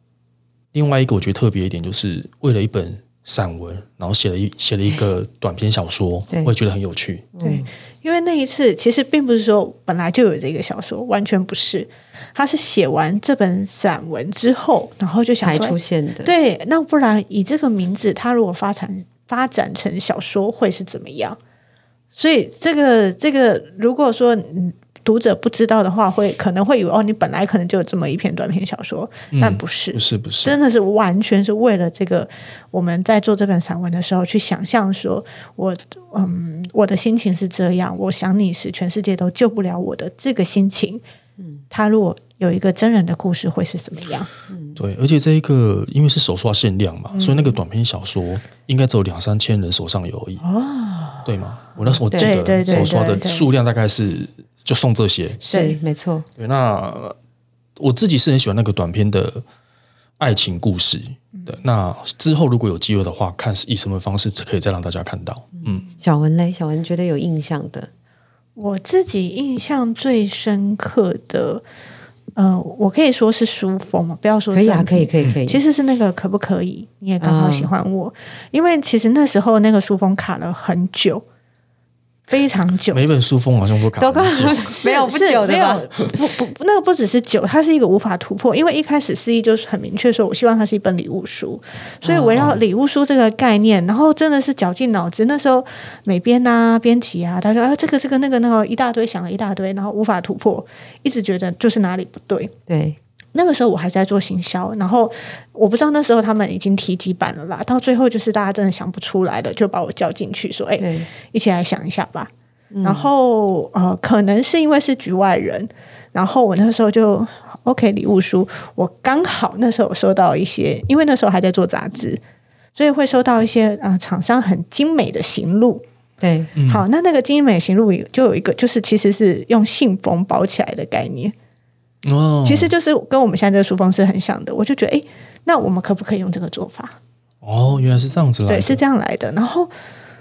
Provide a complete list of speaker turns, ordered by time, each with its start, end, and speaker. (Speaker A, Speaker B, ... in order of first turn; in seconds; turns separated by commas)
Speaker A: 0.7-7.3, Speaker B: 7.3-7.7, Speaker C: 7.4-21.4, Speaker B: 15.4-16.3, Speaker C: 22.1-41.0, Speaker A: 29.3-30.6, Speaker C: 41.7-44.3, Speaker B: 44.5-44.8, Speaker A: 44.8-50.4, Speaker C: 47.1-47.5, Speaker C: 50.4-51.2, Speaker A: 51.2-55.4, Speaker B: 52.1-52.4, Speaker C: 52.1-53.4, Speaker B: 55.4-56.2, Speaker C: 55.5-55.8, Speaker A: 56.4-57.1, Speaker A: 57.8-59.4, Speaker A: 60.2-65.8, Speaker B: 66.0-67.9, Speaker C: 68.5-71.6, Speaker C: 72.3-81.2, Speaker B: 74.5-75.6, Speaker B: 77.2-77.7, Speaker C: 82.3-83.1, Speaker A: 82.9-84.7, Speaker B: 84.0-85.9, Speaker C: 84.6-102.5, Speaker B: 92.0-92.5, Speaker B: 102.7-103.0, Speaker C: 103.3-112.3, Speaker B: 110.8-111.1, Speaker B: 112.7-113.1, Speaker C: 112.8-122.2, Speaker C: 122.8-125.8, Speaker B: 126.2-126.5, Speaker A: 126.5-126.8, Speaker C: 126.7-131.3, Speaker A: 132.0-132.7, Speaker C: 132.4-137.0, Speaker A: 137.4-138.8, Speaker C: 138.5-139.7